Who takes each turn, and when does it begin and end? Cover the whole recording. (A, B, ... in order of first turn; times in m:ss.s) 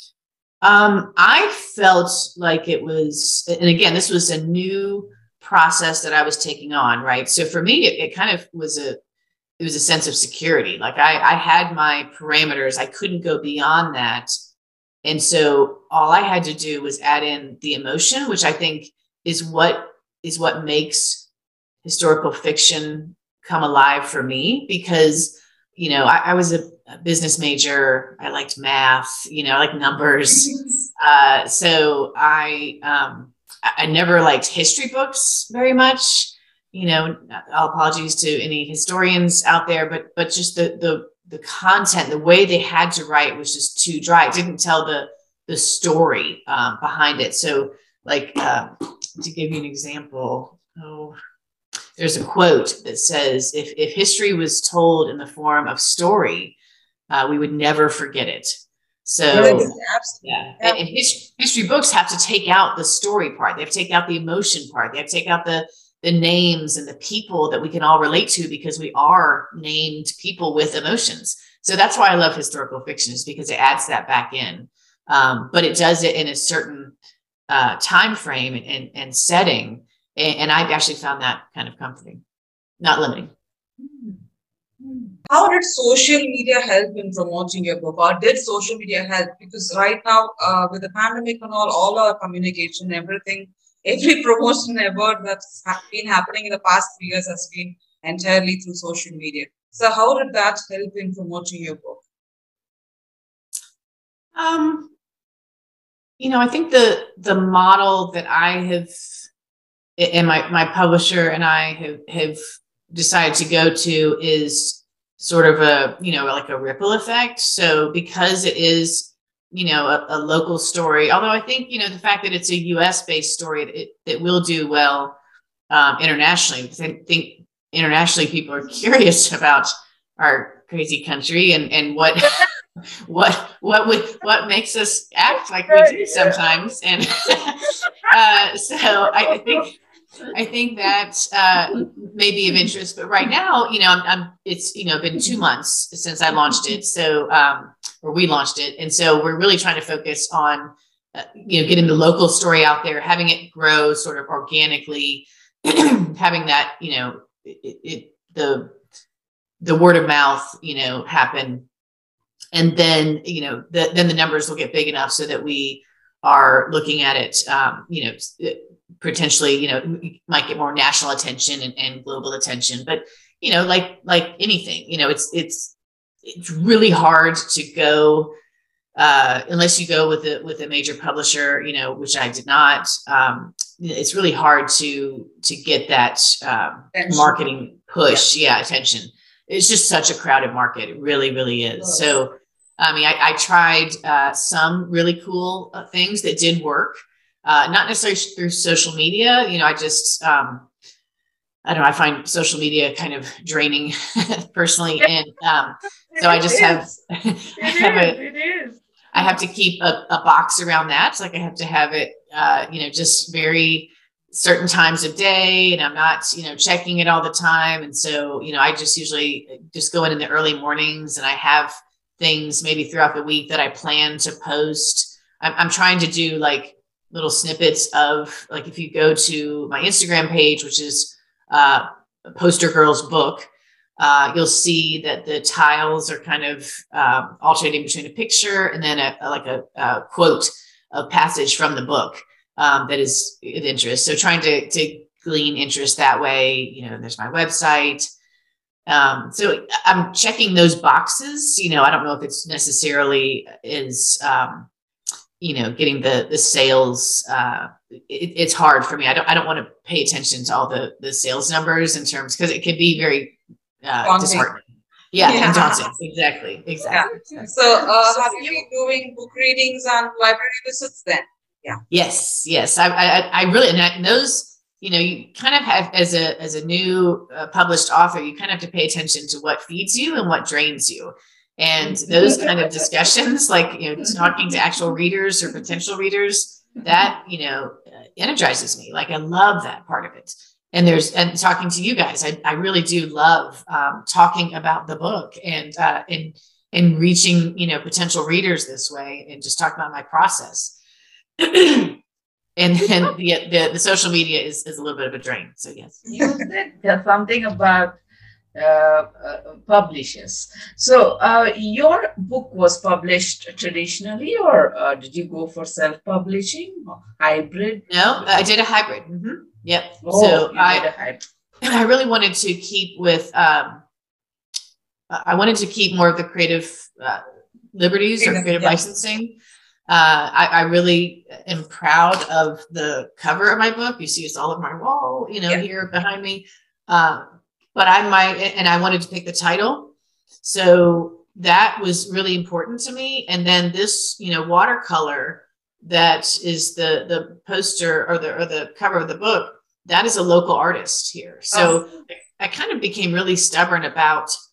0:00.6-0:09.0 A
0:09.6-0:14.3 A
0:15.0-0:21.3 A
0:21.8-0:51.1 A
0:52.0-0:56.5 A
0:57.1-1:16.9 A
0:59.3-1:00.8 B
1:17.5-1:22.2 A
1:22.8-1:23.3 A
1:23.8-1:24.2 C
1:24.8-1:25.2 C
1:25.3-1:42.0 B
1:44.3-1:44.9 A
1:46.2-1:48.9 A
1:50.0-1:52.4 A
1:52.9-2:05.2 A
2:05.7-2:12.4 A
2:13.0-2:19.7 A
2:15.7-2:16.4 C
2:19.1-2:19.6 C
2:20.3-2:38.7 A
2:39.6-2:41.6 A
2:42.5-2:58.3 A
2:59.0-3:20.7 A
3:06.9-3:07.4 B
3:21.6-3:28.2 A
3:26.1-3:27.0 C
3:27.6-3:29.3 C
3:29.1-4:08.0 A
4:08.8-4:14.7 A
4:15.4-4:27.5 A
4:24.0-4:24.5 B
4:25.2-4:25.9 B
4:26.8-4:28.6 C
4:26.9-4:31.8 B
4:31.9-5:00.8 A
4:42.0-4:42.5 C
5:01.4-5:02.0 A
5:02.6-5:06.0 A
5:06.1-5:08.0 C
5:08.5-5:17.9 C
5:17.9-5:20.8 A
5:20.0-5:21.2 C
5:21.6-5:23.8 A
5:25.1-5:27.2 A
5:27.7-5:29.4 A
5:28.2-5:28.8 B
5:29.9-5:37.2 A
5:37.7-5:54.3 A
5:51.5-5:51.8 B